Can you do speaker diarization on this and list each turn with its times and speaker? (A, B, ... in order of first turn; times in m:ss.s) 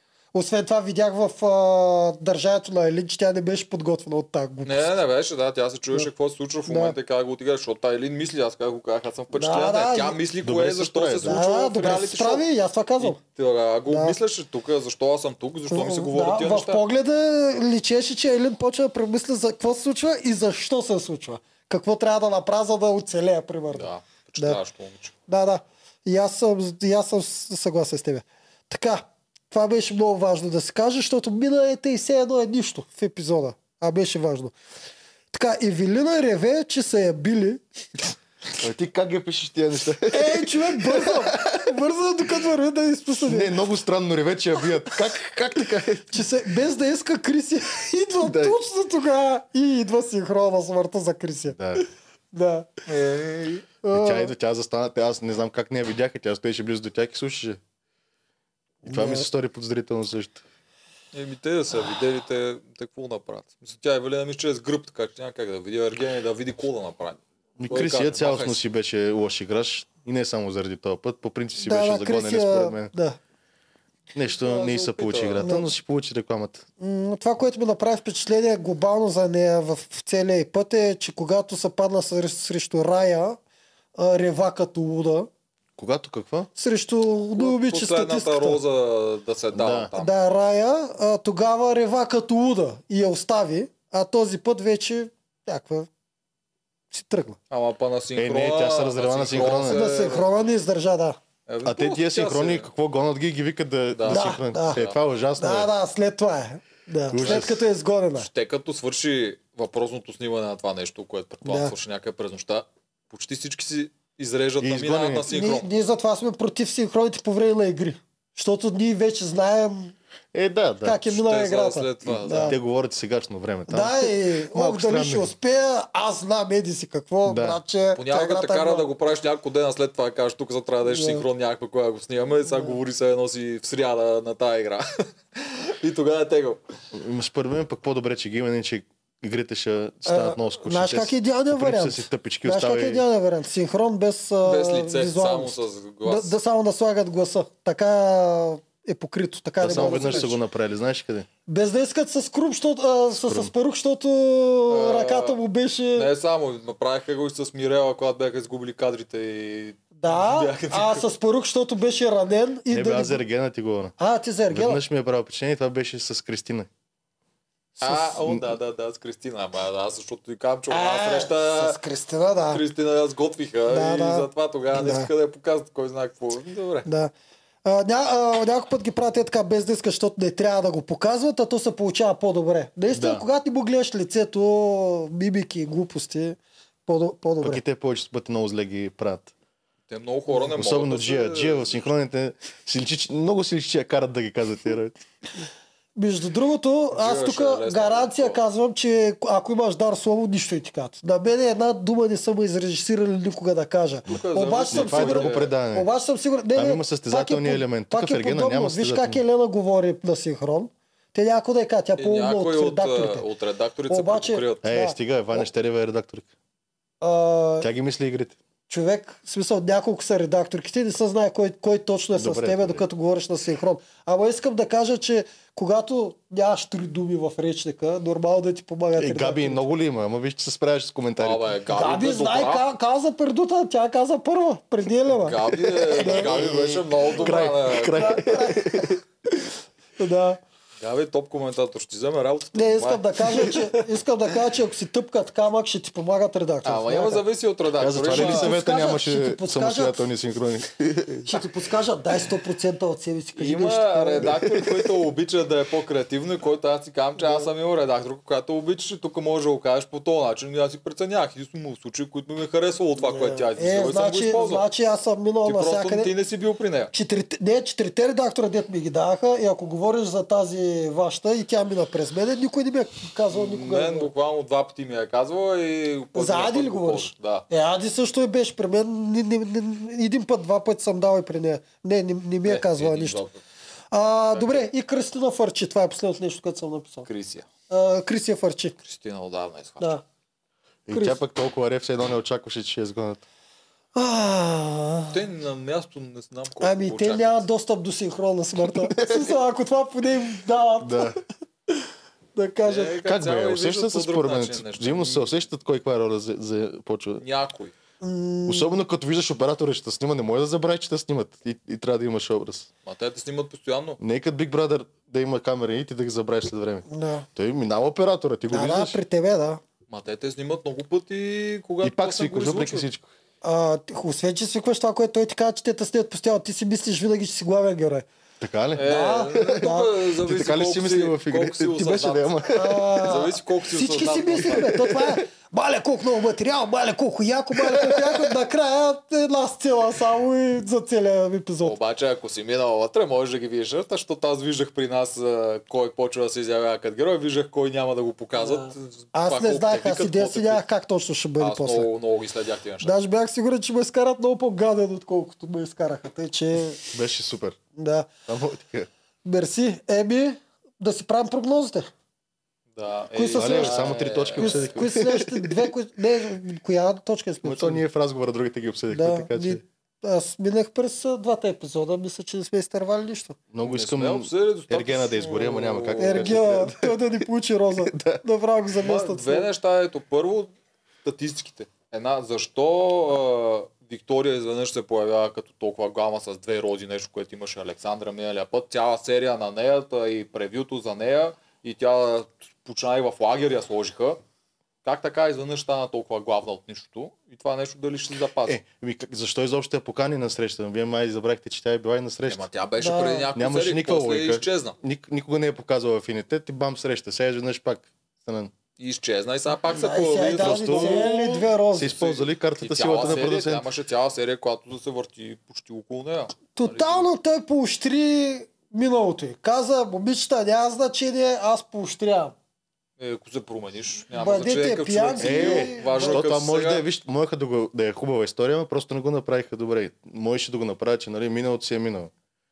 0:00.3-0:04.9 A
0:04.6-0:12.4 B
0:06.7-0:07.0 A
0:09.3-0:10.2 A
0:10.4-0:11.4 C
0:11.2-0:13.2 A
0:13.0-0:16.8 B
0:13.9-0:14.2 A
0:15.7-0:24.6 A
0:23.7-0:25.1 B
0:25.3-0:34.5 A
0:35.3-0:37.6 A
0:38.6-0:41.7 C
0:40.1-0:43.6 A
0:43.2-0:46.3 C
0:46.1-0:52.7 A
0:48.2-0:48.6 C
0:51.6-0:51.8 C
0:52.9-0:53.7 B
0:53.8-0:54.3 A
0:53.9-0:57.6 C
0:58.8-1:00.4 C
0:58.9-0:59.3 A
1:01.1-1:08.6 B
1:07.6-1:12.9 C
1:11.6-1:13.2 A
1:14.1-1:16.6 C
1:14.4-1:15.6 B
1:15.4-1:15.7 A
1:16.8-1:23.4 A
1:24.0-1:25.3 A
1:25.8-1:26.5 C
1:26.6-1:28.6 A
1:27.4-1:30.1 B
1:29.5-1:29.9 C
1:30.0-1:35.9 A
1:36.9-1:37.4 A
1:37.5-1:40.3 B
1:38.2-1:39.8 C
1:39.5-1:41.2 A
1:41.5-1:42.7 B
1:41.6-1:45.7 C
1:43.9-1:45.0 B
1:44.1-1:44.8 A
1:45.4-1:48.3 A
1:47.1-1:47.6 C
1:47.2-1:47.5 B
1:48.2-1:55.7 B
1:51.4-1:51.7 A
1:54.6-1:55.3 C
1:55.3-1:59.9 A
2:00.3-2:01.0 C
2:00.8-2:02.6 A
2:01.1-2:02.6 B
2:02.4-2:05.3 C
2:03.7-2:08.9 A
2:07.2-2:07.6 C
2:08.0-2:16.6 B
2:10.8-2:11.2 A
2:12.5-2:12.8 A
2:16.9-2:23.0 C
2:20.1-2:30.4 A
2:24.4-2:26.3 B
2:29.6-2:31.3 C
2:29.8-2:30.3 B
2:31.5-2:36.1 A
2:33.1-2:33.5 C
2:34.7-2:35.4 B
2:36.0-2:41.0 B
2:40.0-2:43.2 A
2:42.7-2:43.9 C
2:44.0-2:44.8 A
2:44.5-2:46.7 C
2:47.8-2:51.8 B
2:48.1-2:48.4 C
2:50.7-2:52.6 A
2:52.5-2:56.9 B
2:53.7-2:55.1 A
2:56.9-2:57.1 A
2:57.6-3:07.6 A
3:02.9-3:03.2 C
3:07.4-3:09.3 C
3:09.9-3:11.9 B
3:10.3-3:15.0 C
3:16.0-3:33.2 A
3:16.9-3:18.4 B
3:24.1-3:25.5 B
3:24.7-3:25.9 C
3:26.6-3:29.2 C
3:32.0-3:34.7 B
3:33.9-3:35.4 A
3:34.6-3:36.3 C
3:37.0-3:37.7 A
3:37.6-3:38.4 C
3:38.7-3:49.6 A
3:42.2-3:42.8 C
3:49.0-3:51.5 C
3:51.2-3:52.7 B
3:51.7-3:56.6 A
3:55.2-3:58.4 B
3:55.9-3:59.0 C
3:57.3-3:59.0 A
4:00.0-4:00.4 A
4:00.8-4:03.8 B
4:02.6-4:07.2 A
4:06.6-4:08.5 B
4:07.8-4:11.4 C
4:08.1-4:10.1 A
4:11.3-4:14.6 A
4:13.4-4:24.6 B
4:17.2-4:17.5 A
4:23.0-4:26.1 A
4:25.4-4:26.9 B
4:26.9-4:34.1 A
4:33.3-4:37.5 B
4:36.2-4:43.2 A
4:42.4-4:43.4 B
4:43.9-4:47.1 A
4:44.3-4:44.7 B
4:47.1-4:47.5 B
4:47.7-4:48.8 A
4:48.8-4:49.9 B
4:50.9-4:53.2 C
4:50.9-4:51.2 A
4:54.0-4:55.2 A
4:55.1-4:57.5 B
4:56.6-5:01.2 A
4:58.6-4:59.4 C
5:00.8-5:01.2 C
5:02.4-5:03.0 A
5:02.6-5:05.3 B
5:03.0-5:07.2 C
5:07.2-5:07.7 B
5:08.0-5:08.7 A
5:08.5-5:12.7 C
5:12.8-5:14.0 B
5:14.0-5:19.0 C
5:16.9-5:17.3 A
5:18.5-5:19.6 A
5:19.9-5:22.9 B
5:21.8-5:23.1 C
5:23.4-5:28.1 A
5:28.4-5:33.0 C
5:28.8-5:32.4 B
5:28.8-5:29.9 A
5:32.5-5:41.8 A
5:33.0-5:34.7 B
5:34.6-5:35.2 C
5:37.5-5:38.3 C
5:41.6-5:50.6 B
5:48.4-5:51.9 A
5:51.4-5:52.9 B
5:52.8-5:56.9 A
5:56.9-5:57.6 C
5:57.8-5:58.1 A
5:58.3-5:58.9 C
5:59.2-6:01.9 A
6:02.8-6:04.8 B
6:03.2-6:07.8 A
6:03.4-6:05.7 C
6:07.4-6:09.6 C
6:08.9-6:13.4 A
6:13.5-6:17.0 C
6:13.6-6:16.6 B
6:16.0-6:19.5 A
6:17.8-6:18.2 C
6:18.8-6:20.5 B
6:21.0-6:34.2 B
6:34.8-6:38.6 B
6:38.4-6:42.5 C
6:42.3-6:44.8 B
6:42.8-6:43.3 A
6:43.4-6:48.5 C
6:48.8-6:57.1 B
6:49.7-6:52.0 A
6:50.4-6:53.7 C
6:56.6-7:02.4 A
7:03.0-7:06.8 B
7:04.1-7:06.2 A
7:05.2-7:12.1 C